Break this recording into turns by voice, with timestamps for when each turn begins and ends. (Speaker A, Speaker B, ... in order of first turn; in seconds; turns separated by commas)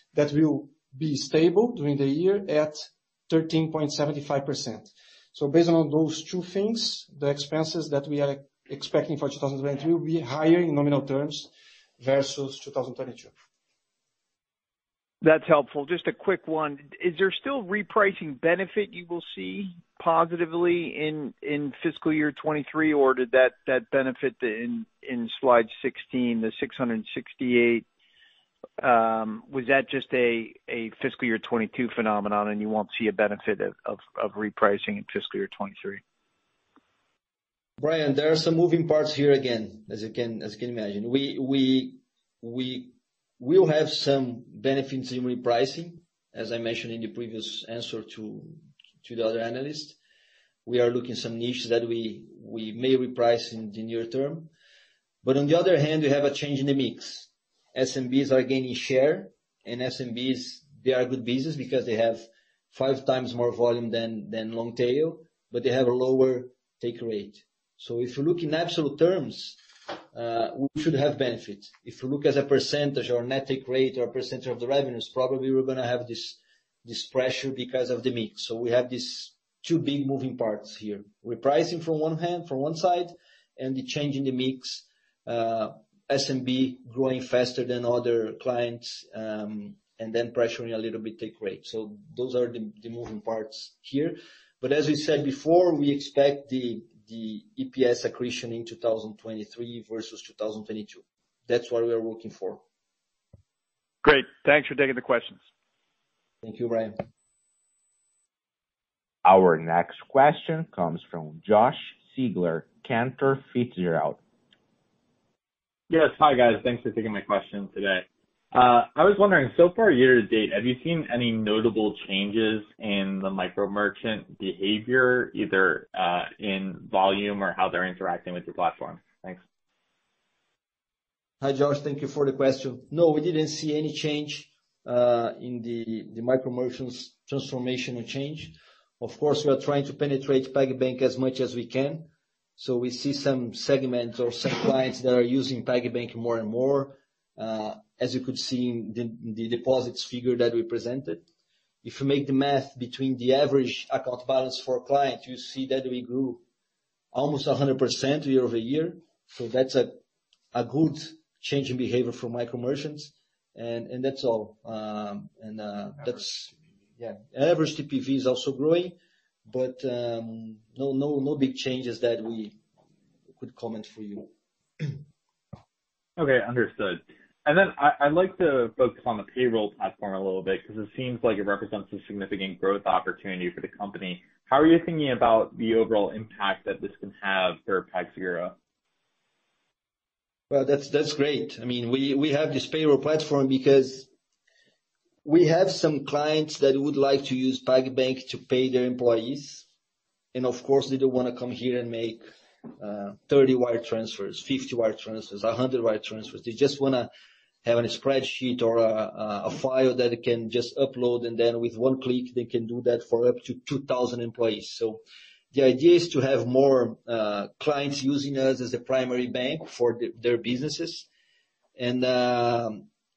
Speaker A: 0.1-13.3, Speaker B: 15.2-27.9, Speaker B: 28.8-36.0, Speaker C: 37.8-50.0, Speaker C: 50.7-54.5, Speaker C: 55.2-69.6, Speaker C: 70.1-102.6, Speaker B: 104.0-105.4, Speaker C: 106.4-107.0, Speaker D: 109.2-114.2, Speaker E: 115.9-129.4, Speaker C: 131.4-151.2, Speaker C: 151.8-156.4, Speaker C: 157.1-160.0, Speaker C: 160.5-169.0, Speaker C: 169.5-172.6, Speaker C: 173.4-174.3, Speaker E: 176.2-188.6, Speaker C: 190.5-194.1, Speaker C: 195.2-199.7, Speaker C: 200.3-202.2, Speaker C: 202.8-207.1, Speaker C: 207.6-215.0, Speaker C: 215.5-221.1, Speaker C: 221.8-222.9